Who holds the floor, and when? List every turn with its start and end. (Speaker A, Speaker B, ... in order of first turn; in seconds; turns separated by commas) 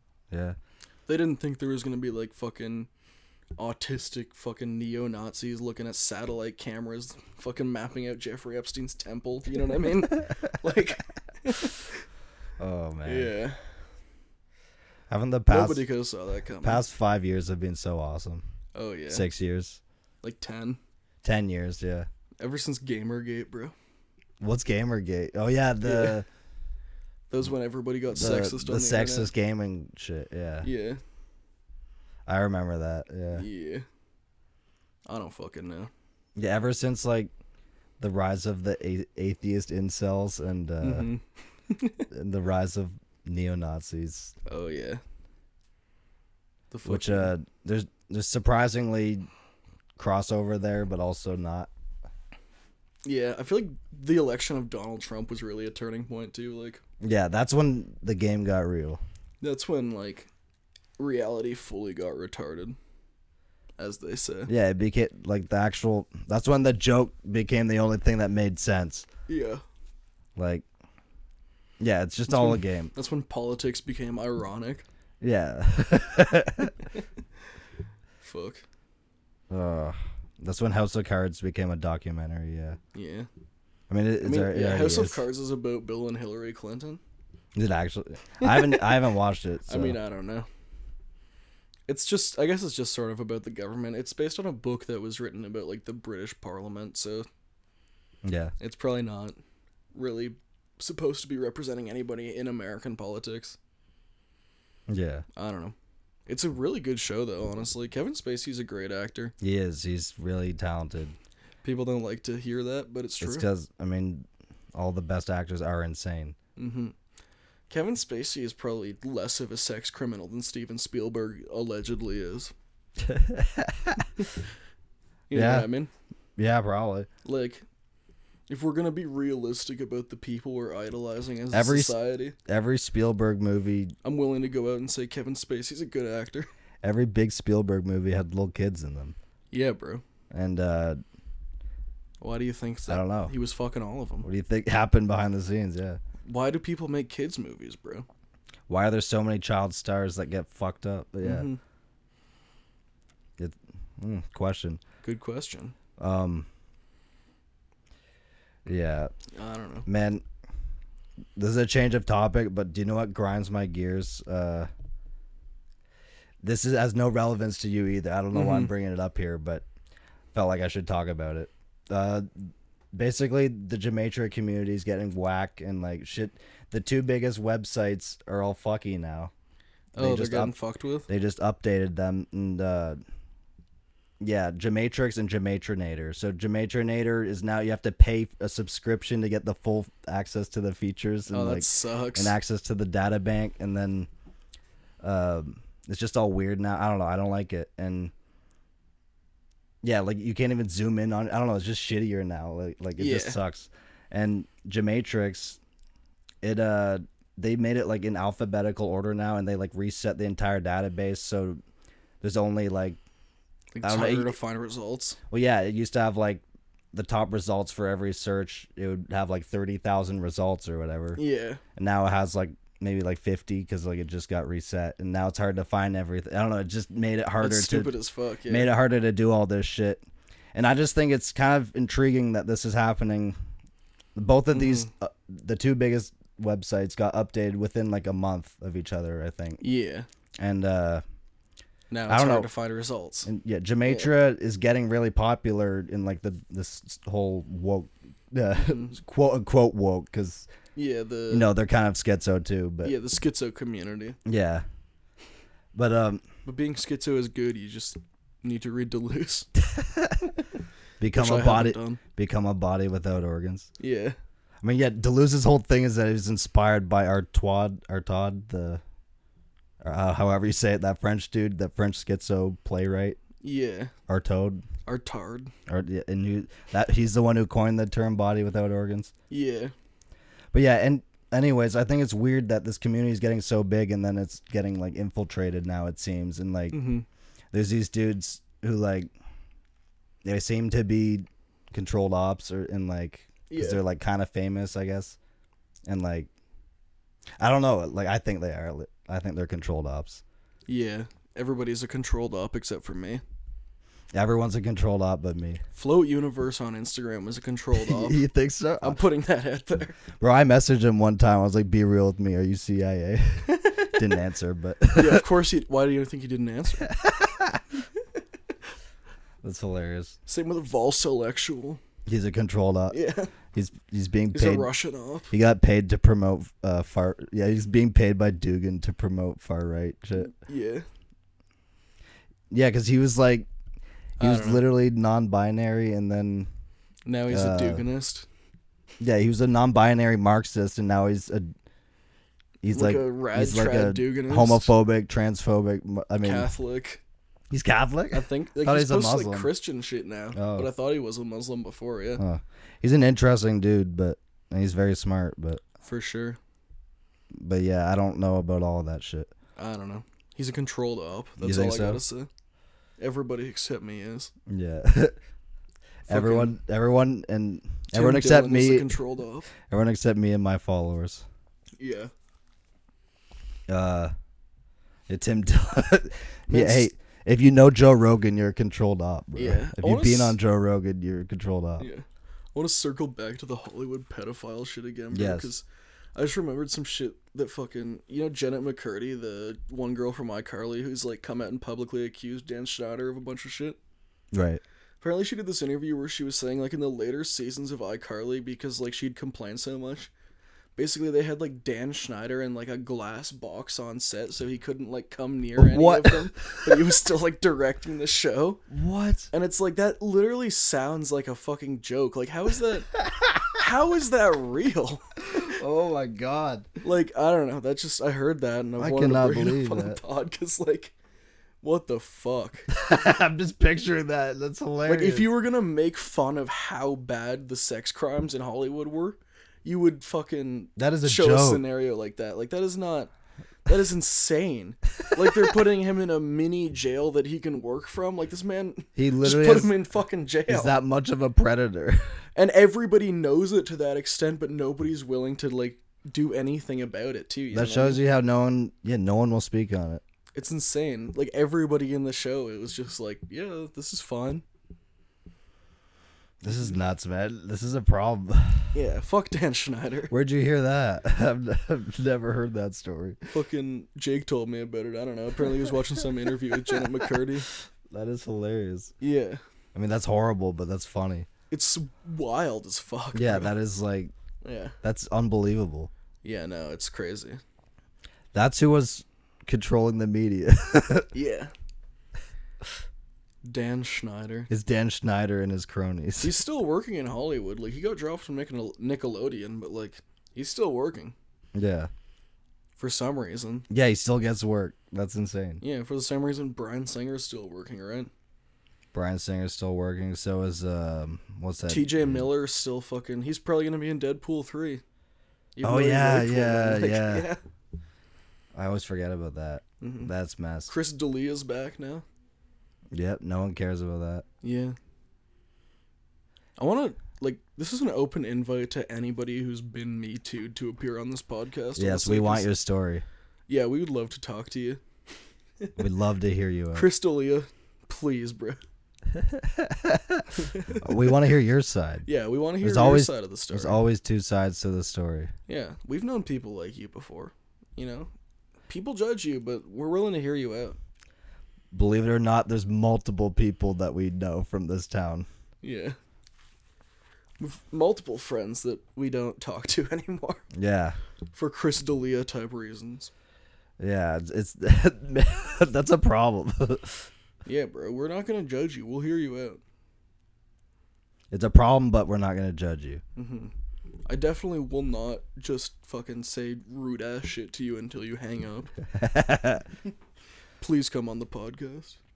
Speaker A: 0.3-0.6, Speaker B: 1.1-2.9, Speaker B: 3.6-12.0, Speaker A: 12.6-13.3, Speaker B: 13.1-13.7, Speaker A: 15.1-15.9, Speaker B: 15.5-16.8, Speaker A: 16.6-18.4, Speaker B: 18.7-19.2, Speaker A: 19.1-19.8, Speaker B: 20.2-20.8, Speaker A: 21.2-22.1, Speaker B: 22.4-23.7, Speaker A: 24.4-26.3, Speaker B: 25.8-26.2, Speaker B: 27.3-29.3, Speaker A: 28.1-30.7, Speaker B: 30.6-31.0, Speaker A: 32.3-33.5, Speaker B: 33.3-33.9, Speaker B: 35.1-35.9, Speaker A: 36.4-37.3, Speaker A: 38.0-41.1, Speaker B: 40.8-42.0, Speaker A: 42.1-44.3, Speaker B: 44.5-45.0, Speaker B: 46.7-47.3, Speaker A: 46.9-49.3, Speaker A: 50.0-51.7, Speaker B: 53.0-56.8, Speaker A: 57.0-59.0, Speaker B: 59.4-60.3, Speaker B: 61.0-62.8, Speaker B: 63.8-64.5, Speaker A: 64.5-69.1, Speaker B: 69.3-69.6, Speaker A: 70.4-70.7, Speaker A: 71.8-72.9, Speaker B: 72.3-74.8, Speaker A: 75.2-76.8, Speaker B: 78.2-78.6, Speaker A: 79.5-82.8, Speaker B: 82.9-83.3, Speaker A: 83.9-85.2, Speaker B: 84.2-87.0, Speaker A: 87.5-90.0, Speaker B: 88.4-89.0, Speaker B: 89.7-90.5, Speaker B: 91.9-97.3, Speaker A: 98.2-98.5, Speaker B: 98.6-99.4, Speaker B: 99.9-103.6, Speaker A: 104.9-105.2, Speaker B: 105.3-105.8, Speaker B: 106.3-109.3, Speaker A: 109.4-111.2, Speaker B: 111.6-113.5, Speaker A: 113.2-116.4, Speaker B: 116.6-117.0, Speaker B: 117.7-122.5, Speaker A: 123.0-124.1, Speaker B: 125.3-125.9, Speaker A: 125.3-125.7, Speaker A: 126.4-127.1, Speaker B: 127.2-127.7, Speaker B: 128.5-132.4, Speaker A: 131.5-133.9, Speaker B: 134.0-136.5, Speaker A: 136.8-139.2, Speaker B: 139.5-140.0, Speaker A: 140.3-141.0, Speaker B: 142.2-144.3, Speaker A: 142.9-143.3, Speaker A: 144.2-146.0, Speaker B: 146.2-148.1, Speaker A: 148.7-151.5, Speaker B: 151.2-151.6, Speaker A: 153.4-154.8, Speaker B: 155.0-155.8, Speaker A: 156.0-156.5, Speaker A: 158.7-159.1, Speaker B: 159.3-159.9, Speaker A: 159.8-160.2, Speaker A: 161.4-164.7, Speaker A: 166.4-169.7, Speaker B: 168.3-168.7, Speaker A: 170.3-179.3, Speaker B: 180.0-181.1, Speaker A: 180.0-180.5, Speaker A: 181.1-183.0, Speaker A: 184.2-194.1, Speaker B: 191.3-192.3, Speaker A: 195.0-198.1, Speaker A: 199.8-205.6, Speaker B: 203.0-203.4, Speaker A: 206.4-211.6, Speaker A: 212.2-213.0, Speaker B: 213.7-215.2, Speaker A: 213.8-214.3, Speaker A: 215.3-221.2, Speaker B: 221.2-221.6, Speaker A: 221.8-227.9, Speaker B: 227.4-228.7, Speaker A: 228.5-233.4, Speaker A: 234.2-239.6, Speaker B: 234.5-234.9, Speaker B: 239.6-240.1, Speaker A: 240.4-241.0, Speaker B: 241.9-243.3, Speaker A: 242.1-242.5, Speaker A: 243.3-250.5, Speaker B: 243.9-244.1, Speaker B: 248.6-249.0, Speaker B: 250.8-251.5, Speaker A: 251.3-252.9, Speaker B: 252.8-254.2, Speaker A: 254.2-254.7, Speaker A: 255.8-256.2, Speaker B: 256.4-259.5, Speaker A: 259.6-260.3, Speaker A: 261.0-263.7, Speaker B: 261.1-262.0, Speaker B: 263.8-264.2, Speaker A: 264.6-268.8, Speaker A: 269.8-273.2, Speaker B: 273.4-273.9, Speaker A: 274.1-274.6, Speaker B: 274.9-275.5, Speaker A: 275.7-279.1, Speaker B: 279.3-279.7, Speaker A: 280.5-286.8, Speaker B: 286.7-287.1, Speaker A: 287.5-289.1, Speaker A: 290.2-295.2, Speaker B: 293.5-293.8, Speaker A: 295.9-296.3, Speaker A: 297.4-300.2, Speaker B: 300.7-303.2, Speaker A: 304.1-305.6, Speaker B: 305.7-308.2, Speaker A: 307.8-309.0, Speaker B: 308.8-310.0, Speaker A: 310.2-315.3, Speaker B: 314.9-316.9, Speaker A: 316.8-317.6, Speaker A: 319.4-320.2, Speaker B: 320.3-321.8, Speaker A: 322.1-323.0, Speaker B: 322.9-323.3, Speaker A: 323.5-324.7, Speaker B: 324.3-325.3, Speaker A: 325.3-330.3, Speaker B: 330.2-330.9, Speaker A: 332.5-333.5, Speaker B: 334.2-334.6, Speaker A: 334.2-336.5, Speaker B: 337.1-338.3, Speaker A: 337.3-337.9, Speaker A: 339.0-341.5, Speaker A: 342.6-346.5, Speaker B: 342.7-344.7, Speaker B: 346.2-347.0, Speaker A: 347.5-349.5, Speaker B: 348.1-352.2, Speaker A: 350.3-350.7, Speaker A: 352.2-355.6, Speaker B: 355.8-356.4, Speaker A: 357.4-359.3, Speaker B: 359.6-362.3, Speaker A: 361.4-362.0, Speaker B: 363.0-364.3, Speaker A: 364.5-365.2, Speaker A: 366.1-368.9, Speaker B: 366.1-366.5, Speaker B: 367.9-369.5, Speaker A: 369.7-371.2, Speaker B: 371.8-372.1, Speaker A: 373.7-374.1, Speaker A: 375.1-381.9, Speaker B: 376.5-376.9, Speaker B: 379.4-380.4, Speaker B: 381.8-393.8, Speaker A: 385.1-385.5, Speaker A: 394.3-394.6, Speaker B: 395.0-400.1, Speaker B: 400.8-408.6, Speaker A: 405.6-406.8, Speaker A: 408.7-409.3, Speaker B: 409.3-412.9, Speaker A: 413.0-413.6, Speaker B: 413.6-415.0, Speaker A: 415.2-416.7, Speaker B: 416.8-420.9, Speaker A: 418.8-420.0, Speaker B: 421.6-422.7, Speaker A: 422.7-425.3, Speaker B: 424.8-433.1, Speaker A: 430.8-431.6, Speaker B: 433.7-440.7, Speaker A: 435.0-435.4, Speaker A: 439.0-439.8, Speaker A: 440.5-442.2, Speaker B: 442.4-448.0, Speaker A: 447.5-450.0, Speaker B: 450.4-454.4, Speaker A: 456.4-458.8, Speaker B: 456.5-456.7, Speaker B: 458.7-460.1, Speaker A: 460.1-463.2, Speaker B: 463.3-467.5, Speaker A: 467.9-468.9, Speaker B: 469.0-469.4, Speaker A: 469.8-471.3, Speaker B: 471.5-473.5, Speaker A: 473.1-474.1, Speaker B: 474.4-474.8, Speaker A: 474.8-475.9, Speaker B: 476.2-477.4, Speaker A: 478.3-481.1, Speaker B: 481.1-481.5, Speaker B: 483.4-484.5, Speaker A: 484.5-486.4, Speaker B: 486.2-491.1, Speaker A: 491.6-491.9, Speaker B: 492.8-493.7, Speaker A: 493.7-495.6, Speaker B: 495.6-498.1, Speaker A: 498.9-502.3, Speaker B: 501.7-504.8, Speaker B: 505.6-507.4, Speaker A: 505.6-507.3, Speaker A: 508.6-510.7, Speaker B: 509.8-510.1, Speaker B: 510.7-512.0, Speaker A: 512.9-514.2, Speaker B: 514.4-514.8, Speaker B: 516.6-522.5, Speaker A: 521.8-523.0, Speaker B: 523.5-524.8, Speaker A: 525.8-526.9, Speaker B: 526.7-528.6, Speaker A: 529.1-532.1, Speaker B: 530.4-531.2, Speaker B: 532.1-533.8, Speaker A: 532.6-535.3, Speaker B: 535.5-538.1, Speaker B: 538.7-540.8, Speaker A: 541.7-545.3, Speaker B: 545.6-546.0, Speaker B: 547.4-550.5, Speaker A: 550.5-551.0, Speaker B: 551.3-553.1, Speaker A: 553.8-557.1, Speaker B: 557.5-559.6, Speaker A: 561.3-563.0, Speaker B: 563.2-563.5, Speaker B: 564.1-568.7, Speaker A: 568.9-569.7, Speaker B: 570.6-572.0